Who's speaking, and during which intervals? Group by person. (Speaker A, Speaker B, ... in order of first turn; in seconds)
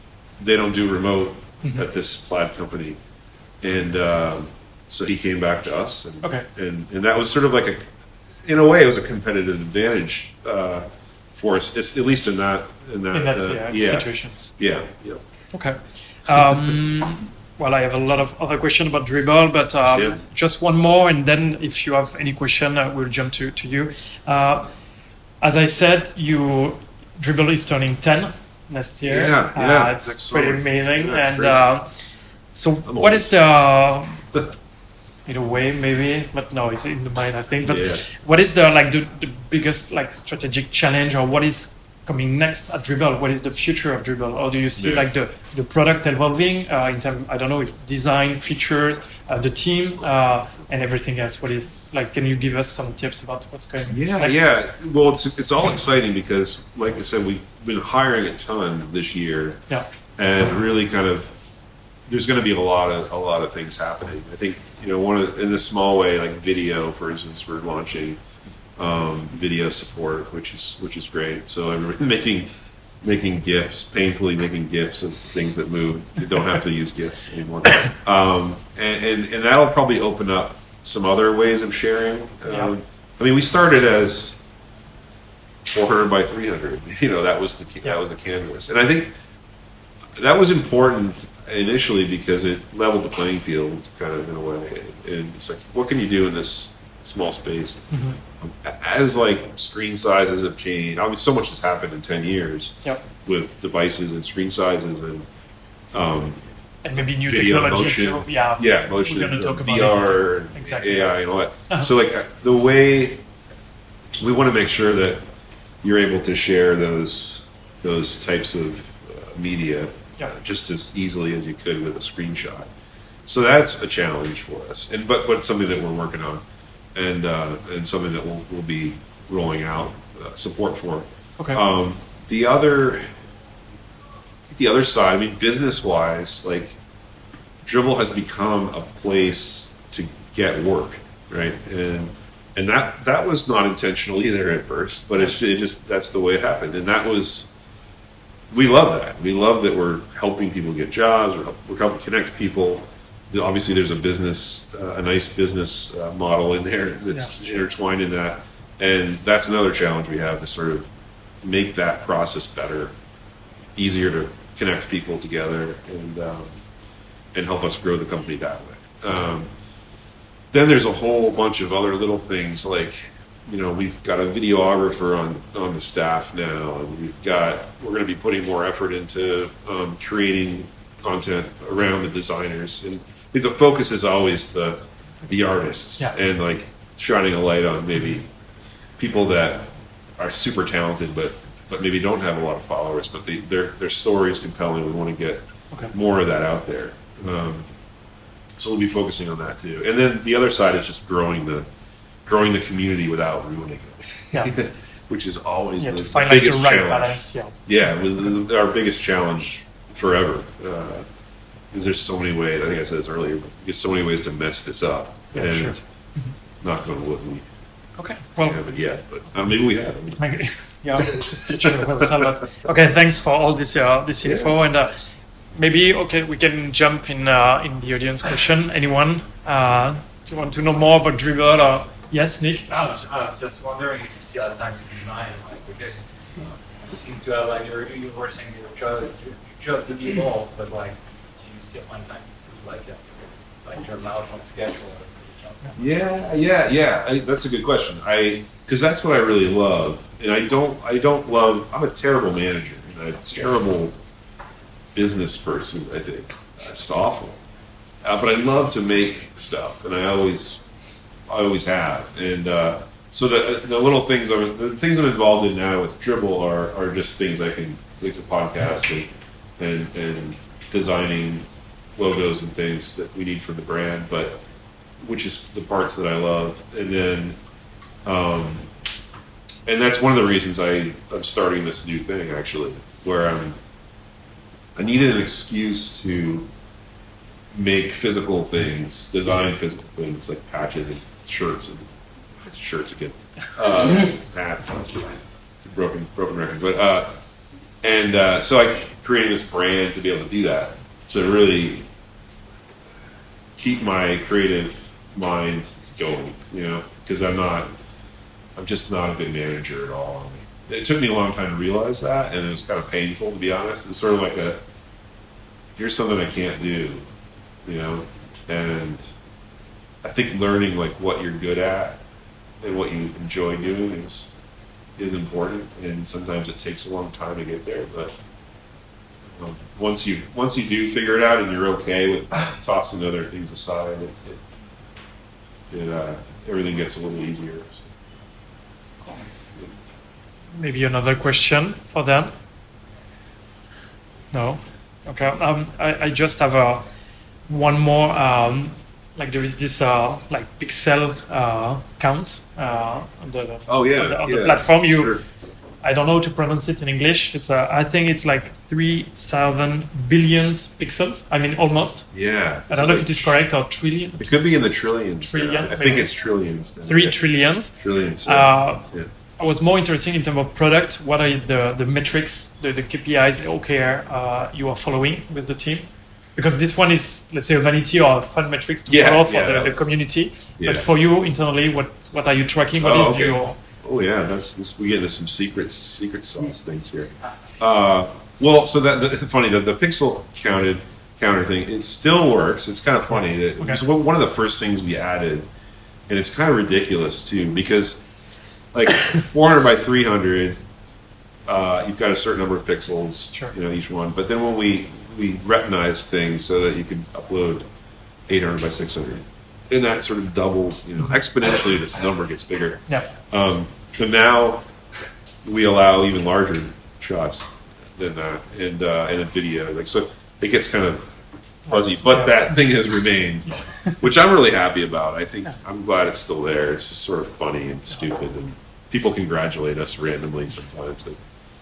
Speaker A: 0.4-3.0, 3.6-7.9, 8.4-15.2, 29.0-31.7, 32.8-33.3, 37.6-38.0, 44.8-45.1, 53.9-59.6, 60.1-61.4, 62.1-68.2, 68.8-84.4, 85.6-89.1, 90.2-105.3, 105.9-106.4, 107.0-113.2, 114.2-115.2, 115.8-122.7, 123.2-133.2, 134.5-136.8, 137.6-147.5, 148.5-162.9, 163.8-166.6, 167.3-169.5, 170.5-188.3, 189.0-197.7, 198.5-201.7, 202.2-211.1, 211.7-215.8, 216.6-217.5, 218.4-222.7, 224.2-224.5, 245.8-253.9, 254.9-257.4, 258.0-260.6, 261.3-274.4, 275.0-277.4, 278.0-278.7, 279.6-283.6, 284.7-286.5, 287.5-297.2, 297.8-301.9, 303.6-307.7, 308.5-314.6, 315.8-317.1, 317.6-319.1, 320.0-322.0, 322.6-324.3, 325.0-328.2, 329.4-334.4, 335.7-337.9, 353.7-355.2, 362.1-363.4, 364.2-367.2, 367.7-369.1, 378.9-380.0, 380.6-380.9, 382.7-395.5, 396.1-398.0, 398.7-400.6, 401.4-407.6, 408.3-414.7, 415.4-431.2
Speaker B: 13.1-14.4, 15.5-24.7, 25.4-34.3, 35.2-54.4, 97.9-98.2, 106.8-111.2, 205.8-207.6, 215.3-216.3, 218.0-218.6, 220.2-232.7, 340.6-342.3, 344.3-346.8, 347.5-355.1, 355.8-362.1, 362.7-364.3, 365.2-366.1, 366.8-368.9, 369.4-383.6, 421.7-422.6, 423.5-423.9
Speaker C: 232.7-245.8, 339.0-339.5